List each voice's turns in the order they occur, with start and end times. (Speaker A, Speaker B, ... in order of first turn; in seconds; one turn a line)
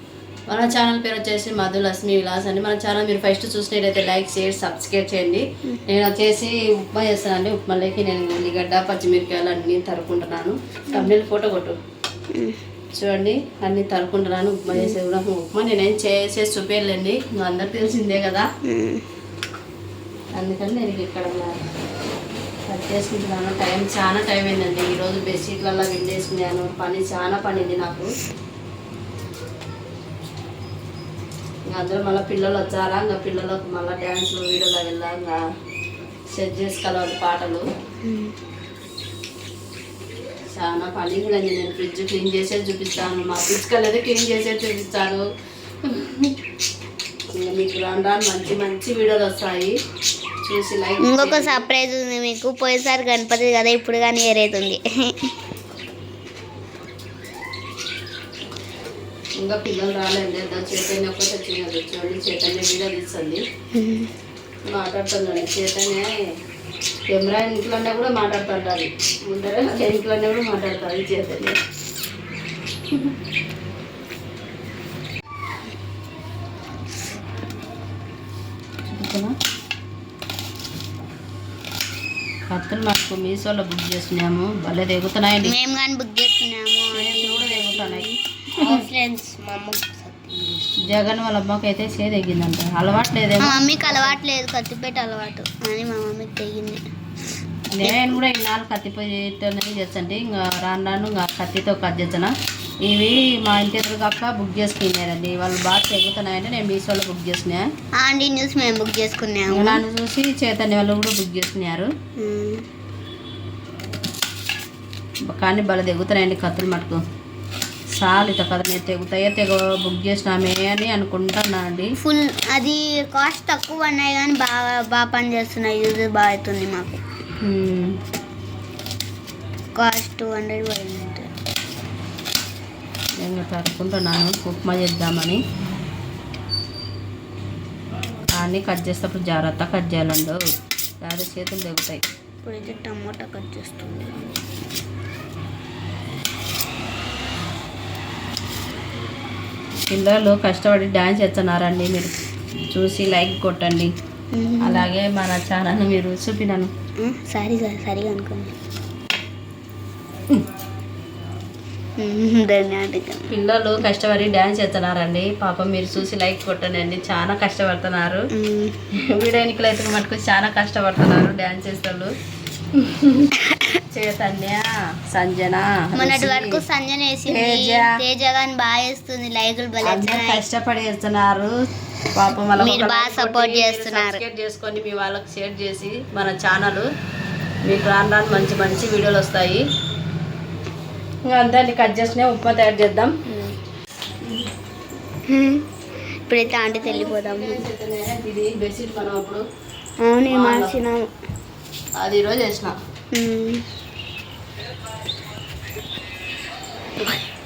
Speaker A: 0.5-11.8
Speaker B: 12.3-12.6
Speaker A: 13.0-18.5
Speaker B: 18.6-19.1
Speaker A: 20.4-21.6
Speaker A: 22.7-28.1
Speaker A: 31.7-35.4
Speaker A: 36.3-37.7
Speaker B: 38.0-38.4
Speaker A: 40.5-45.3
Speaker A: 45.8-46.3
Speaker A: 47.3-49.8
Speaker A: 50.4-51.6
Speaker B: 51.0-55.3
Speaker A: 59.4-63.4
Speaker B: 63.7-64.1
Speaker A: 64.7-66.1
Speaker A: 67.1-71.6
Speaker A: 78.8-79.3
Speaker A: 82.5-85.5
Speaker B: 85.5-90.7
Speaker A: 86.9-88.1
Speaker A: 90.8-94.2
Speaker B: 93.4-96.8
Speaker A: 97.7-102.3
Speaker B: 97.8-98.2
Speaker A: 102.8-107.7
Speaker B: 108.0-109.8
Speaker A: 109.5-111.9
Speaker B: 112.2-112.6
Speaker A: 115.3-117.0
Speaker A: 118.0-122.0
Speaker B: 122.0-127.0
Speaker A: 127.4-128.0
Speaker B: 129.8-131.3
Speaker A: 133.2-135.4
Speaker A: 138.3-140.4
Speaker A: 141.0-142.0
Speaker B: 142.4-144.4
Speaker A: 149.9-152.1
Speaker A: 152.7-153.9
Speaker B: 154.3-154.9
Speaker A: 154.6-156.7
Speaker B: 157.0-158.6
Speaker B: 162.0-163.3
Speaker A: 163.3-168.3
Speaker B: 168.3-168.8
Speaker A: 168.9-172.1
Speaker A: 172.8-173.3
Speaker B: 173.4-173.7
Speaker A: 173.9-176.6
Speaker B: 175.9-180.4
Speaker A: 177.3-178.0
Speaker A: 179.8-181.5
Speaker A: 182.2-186.9
Speaker B: 182.6-184.2
Speaker A: 187.7-189.6
Speaker A: 191.3-193.2
Speaker B: 193.3-193.6
Speaker B: 195.3-195.6
Speaker B: 196.3-197.6
Speaker A: 196.6-199.4
Speaker B: 200.0-201.1
Speaker A: 200.3-200.7
Speaker A: 202.0-202.8
Speaker B: 203.1-203.6